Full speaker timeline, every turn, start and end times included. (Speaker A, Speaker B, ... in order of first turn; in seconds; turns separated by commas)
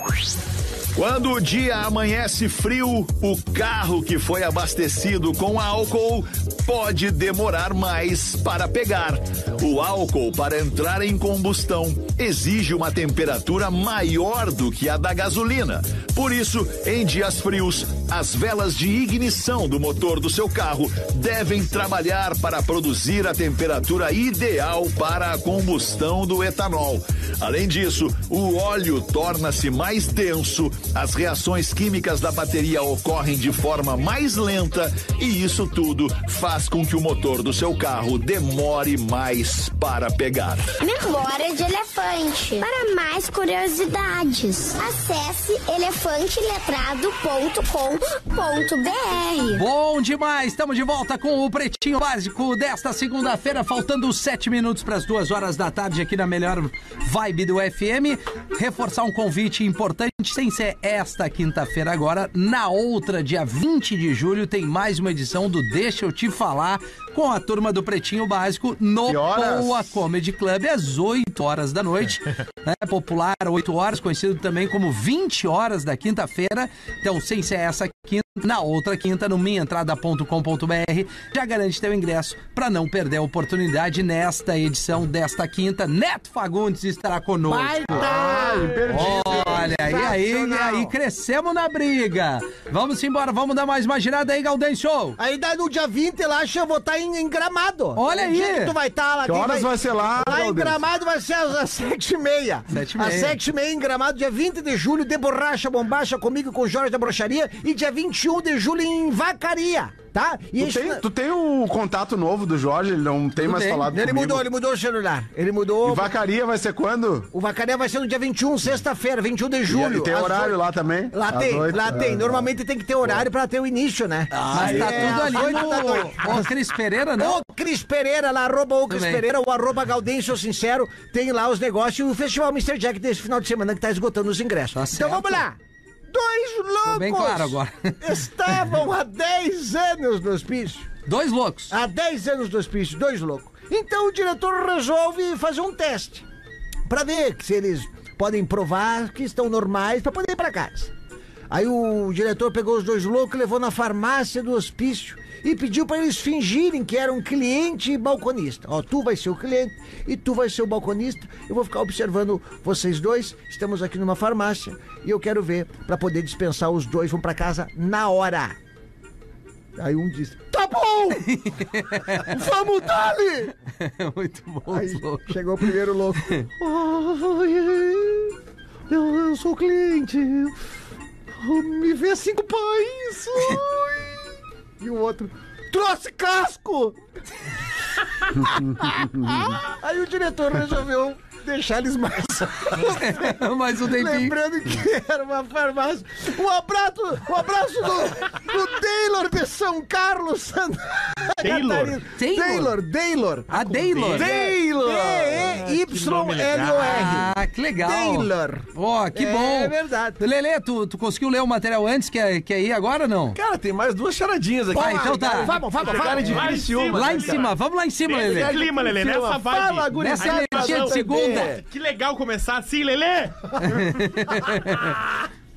Speaker A: 0.9-40.7, Speaker B: 40.8-49.6, Speaker C: 49.5-88.1, Speaker D: 69.0-70.0, Speaker E: 87.5-90.9, Speaker D: 87.9-90.1, Speaker C: 88.8-95.2, Speaker E: 95.2-111.0, Speaker C: 97.9-98.7, Speaker D: 99.2-100.8, Speaker C: 102.7-103.4, Speaker D: 110.6-114.4, Speaker C: 113.4-113.8, Speaker E: 113.8-116.1, Speaker D: 115.8-117.3, Speaker E: 117.3-120.6, Speaker D: 119.7-122.5, Speaker E: 121.1-126.5, Speaker F: 124.3-125.6, Speaker C: 124.5-127.4, Speaker E: 127.2-135.6, Speaker C: 128.9-129.2, Speaker C: 134.7-135.4, Speaker E: 136.1-140.9, Speaker C: 136.9-138.7, Speaker C: 141.1-141.7, Speaker E: 141.7-146.2, Speaker E: 146.9-150.9, Speaker E: 151.5-168.6, Speaker E: 169.8-173.5, Speaker C: 171.2-172.4, Speaker C: 173.8-175.7, Speaker E: 174.7-178.3, Speaker E: 178.9-180.6, Speaker E: 181.3-184.2, Speaker E: 184.8-187.0, Speaker E: 188.2-210.2, Speaker C: 192.7-194.4, Speaker G: 201.4-202.0, Speaker C: 202.2-202.8, Speaker C: 203.5-204.3, Speaker G: 203.5-204.1, Speaker F: 204.1-205.6, Speaker G: 205.4-207.1, Speaker C: 206.8-213.4, Speaker F: 213.3-217.5, Speaker E: 214.7-216.7, Speaker C: 214.7-215.6, Speaker G: 215.5-217.5, Speaker C: 216.9-218.6, Speaker G: 218.1-223.9, Speaker F: 218.2-221.6, Speaker C: 219.9-221.5, Speaker C: 223.6-225.0